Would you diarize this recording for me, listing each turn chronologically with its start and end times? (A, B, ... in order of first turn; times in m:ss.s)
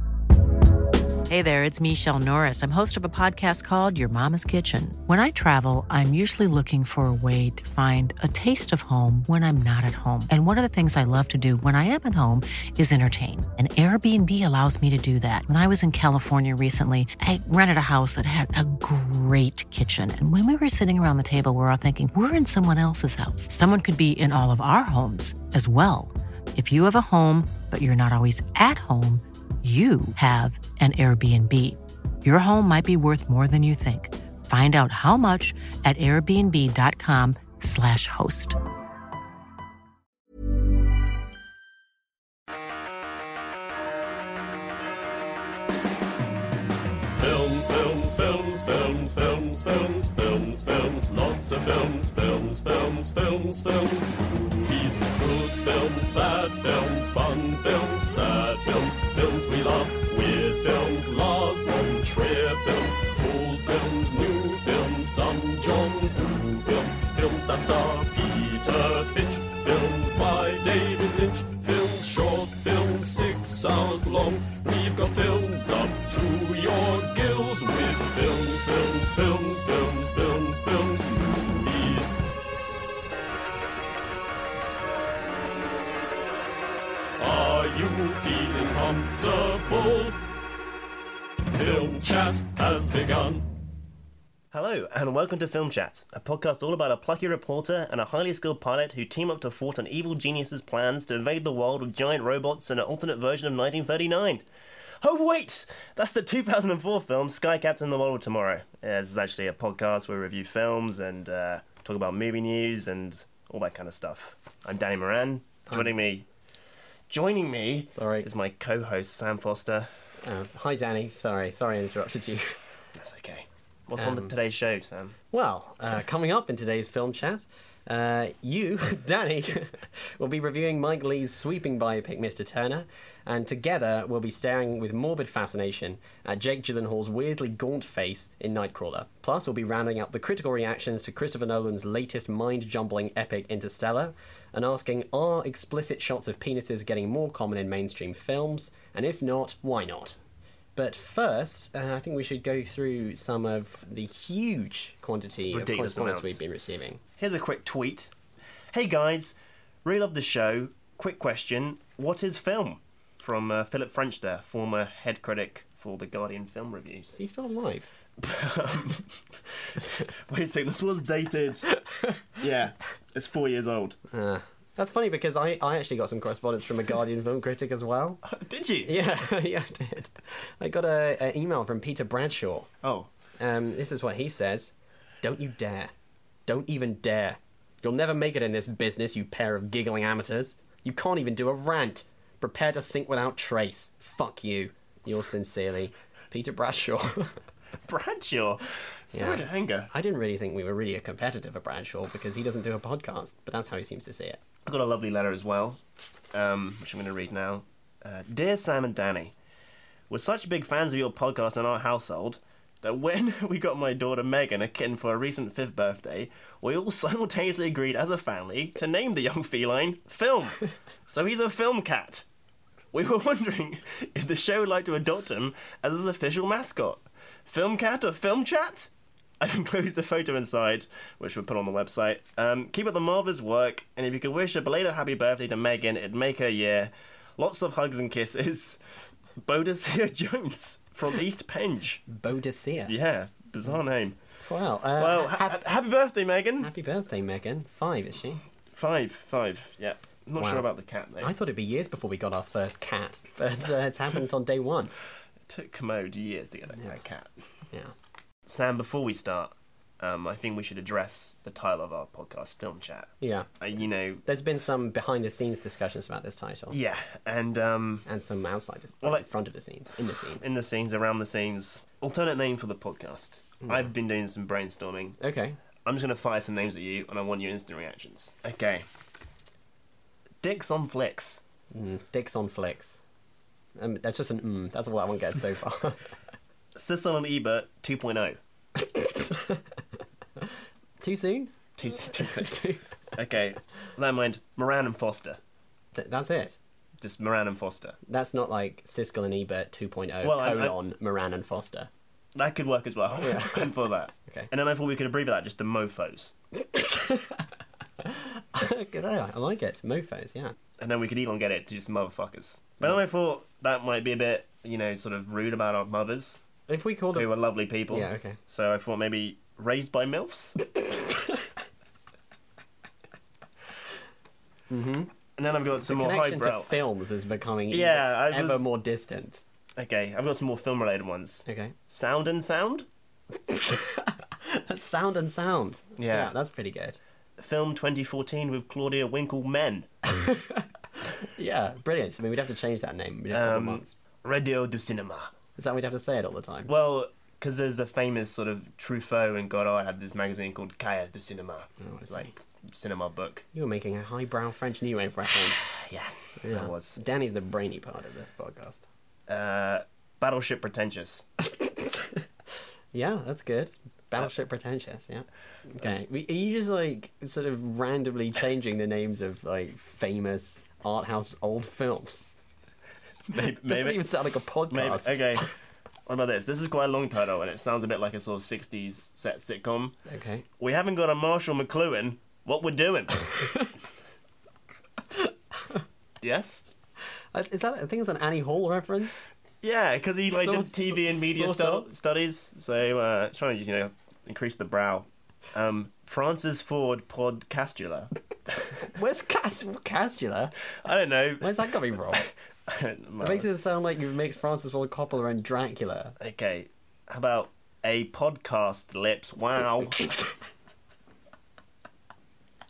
0:01.3-0:38.6 A
0:47.2-1:22.2 B
1:27.2-1:30.2 B
1:31.5-1:33.4 B
1:34.5-1:44.4 C
1:45.0-1:56.3 C
1:55.7-1:56.0 D
1:57.1-1:59.9 C
1:57.9-1:58.3 D
2:00.2-2:02.6 D
2:02.9-2:05.2 C
2:04.0-2:04.3 D
2:05.3-2:30.2 D
2:30.8-2:37.0 D
2:35.5-2:36.4 C
2:37.2-2:38.1 C
2:38.7-2:47.2 C
2:47.1-2:47.9 D
2:48.2-2:51.7 C
2:51.7-2:52.2 D
2:52.4-2:54.0 C
2:54.1-2:58.2 D
2:58.2-2:59.0 C
2:58.8-3:02.7 D
3:02.8-3:03.1 C
3:03.4-3:05.9 D
3:06.5-3:17.4 D
3:17.9-3:19.9 C
3:19.1-3:24.4 D
3:24.6-3:25.8 C
3:26.3-3:29.4 C
3:30.1-3:42.2 C
3:42.9-3:58.8 C
3:59.4-4:02.0 C
4:02.1-4:02.9 D
4:02.9-4:04.2 C
4:04.4-4:05.7 D
4:05.0-4:06.7 C
4:06.6-4:08.4 D
4:08.7-4:11.3 C
4:10.4-4:10.7 D
4:11.2-4:14.9 D
4:15.5-4:17.3 C
4:16.8-4:17.0 D
4:18.5-4:24.2 C
4:23.2-4:23.5 D
4:24.2-4:26.8 D
4:26.7-4:28.0 C
4:28.1-4:30.6 D
4:29.0-4:29.3 C
4:30.4-4:35.2 C
4:33.6-4:33.9 D
4:35.2-4:35.6 D
4:35.8-4:38.9 C
4:40.4-4:41.4 C
4:41.7-4:43.0 D
4:43.8-4:46.1 D
4:46.8-4:48.4 C
4:48.8-4:49.7 D
4:50.4-4:51.5 D
4:51.8-4:52.6 C
4:52.1-4:52.8 D
4:53.1-4:55.4 C
4:56.0-4:56.6 D
4:57.0-4:58.0 C
4:58.1-5:01.9 D
5:00.2-5:00.8 C
5:02.4-5:06.3 C
5:03.2-5:03.7 D
5:04.2-5:04.5 D
5:06.6-5:07.5 D
5:08.0-5:10.5 D
5:10.8-5:16.4 C
5:16.7-5:17.3 D
5:17.1-5:20.6 C
5:17.9-5:18.4 D
5:24.7-5:25.1 D
5:25.4-5:26.8 C
5:25.8-5:29.4 D
5:27.7-5:28.7 C
5:29.8-5:32.9 C
5:31.5-5:31.8 D
5:33.5-5:37.0 D
5:36.0-5:36.3 C
5:37.4-5:39.9 C
5:40.1-5:40.7 D
5:41.2-5:44.0 D
5:43.3-5:45.3 C
5:45.6-5:46.7 D
5:46.7-5:53.4 C
5:51.8-5:52.3 D
5:53.5-5:55.8 D
5:55.5-5:57.0 C
5:56.4-5:58.9 D
5:59.3-6:01.3 C
6:01.4-6:02.2 D
6:02.9-6:12.4 D
6:13.3-6:14.1 C
6:13.4-6:15.5 D
6:14.7-6:15.5 C
6:16.1-6:20.0 C
6:20.1-6:20.5 D
6:20.6-6:23.3 C
6:25.2-6:25.8 D
6:26.2-6:26.7 C
6:27.3-6:29.3 D
6:29.6-6:38.1 C
6:30.3-6:31.9 D
6:38.9-6:40.6 D
6:40.8-6:43.5 C
6:41.4-6:42.3 D
6:43.2-6:46.2 D
6:46.2-6:50.0 C